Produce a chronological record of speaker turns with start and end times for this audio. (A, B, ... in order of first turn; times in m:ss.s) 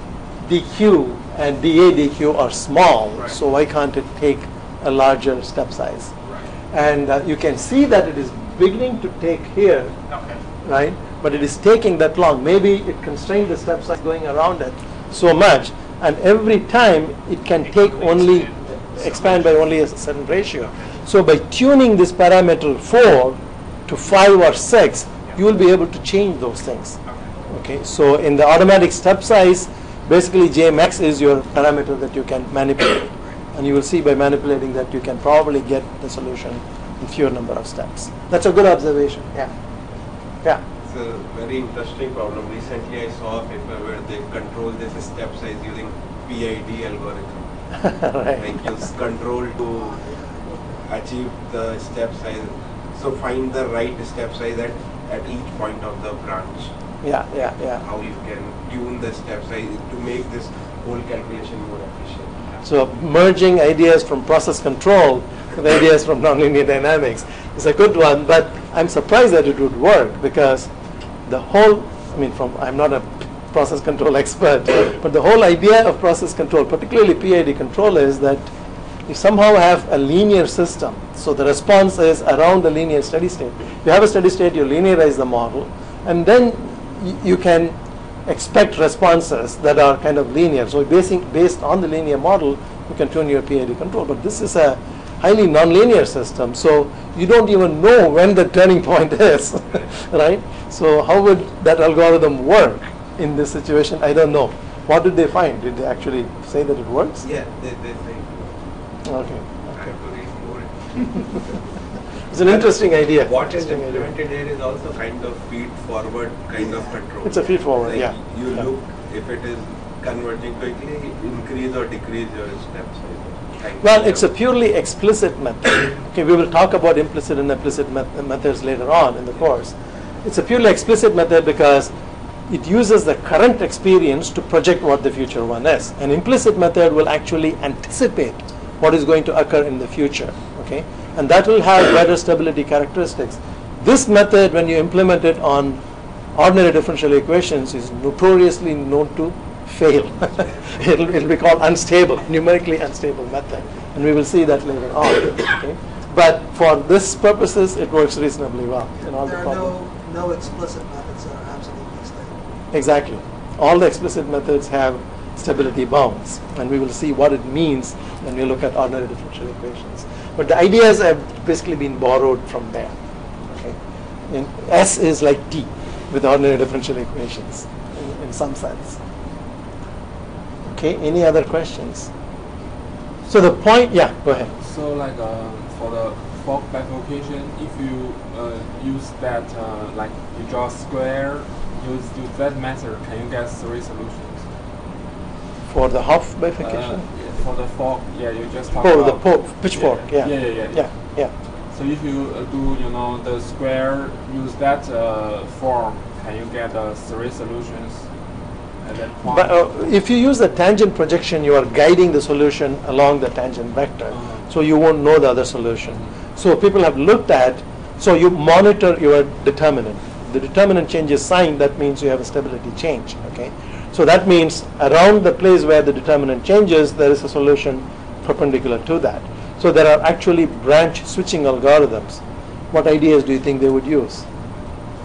0:00.4-0:06.1 A
0:06.2-0:06.5 B
0:06.7-0:10.0 A
0:10.1-0:10.4 B
0:10.6-0:27.0 A
0:17.6-0:19.6 B
0:27.0-0:27.3 B
0:27.5-0:39.5 A
0:40.8-0:47.5 C
0:47.8-0:48.5 A
0:48.4-0:50.0 C
0:49.8-0:50.6 D
0:50.8-0:56.7 C
0:57.0-0:57.8 A
0:57.8-1:02.5 C
1:02.6-1:10.7 A
1:11.3-1:18.5 A
1:19.1-1:47.2 A
1:47.2-1:48.6 C
1:49.0-1:49.9 A
1:49.7-1:51.6 C
1:52.3-1:54.1 A
1:52.4-2:04.3 C
1:57.2-1:58.6 A
2:03.8-2:11.9 A
2:12.5-2:25.8 A
2:26.4-2:39.7 A
2:39.2-2:42.4 D
2:42.7-2:53.0 A
2:53.5-2:53.8 A
2:54.3-2:59.0 A
3:00.7-3:02.1 A
3:03.3-3:04.5 A
3:04.6-3:14.5 E
3:15.7-3:17.0 A
3:16.6-3:21.0 E
3:18.8-3:21.3 A
3:21.7-3:28.1 E
3:28.8-3:29.5 E
3:29.2-3:54.3 A
3:34.2-3:34.4 E